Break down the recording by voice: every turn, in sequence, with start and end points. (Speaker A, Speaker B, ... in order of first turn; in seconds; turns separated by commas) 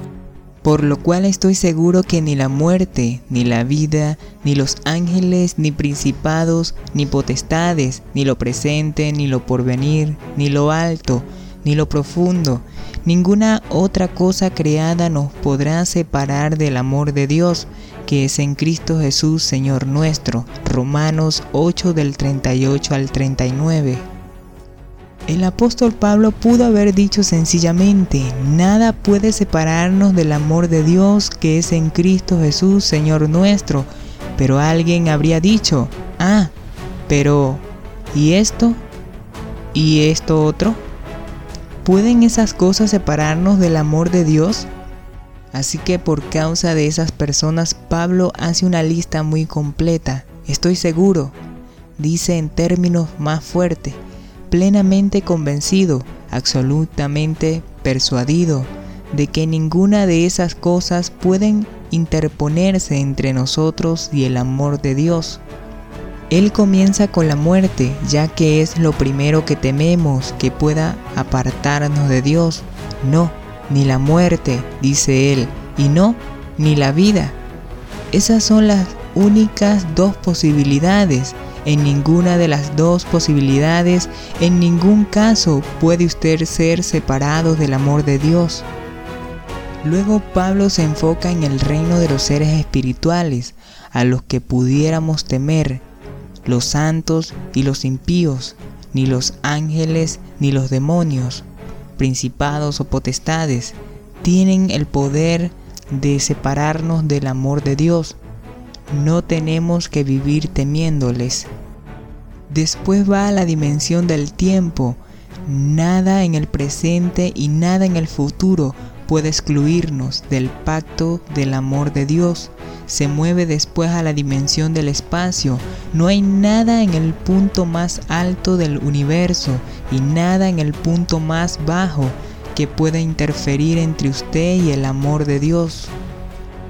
Speaker A: 0.6-24.1, Speaker A: 25.3-36.5, Speaker A: 37.1-38.8, Speaker A: 39.7-40.8, Speaker A: 41.8-44.7, Speaker A: 45.5-51.4, Speaker A: 52.0-65.4, Speaker A: 66.3-77.4, Speaker A: 78.1-88.7, Speaker A: 89.8-95.8, Speaker A: 96.5-101.5, Speaker A: 102.0-108.2, Speaker A: 108.9-111.5, Speaker A: 112.5-135.9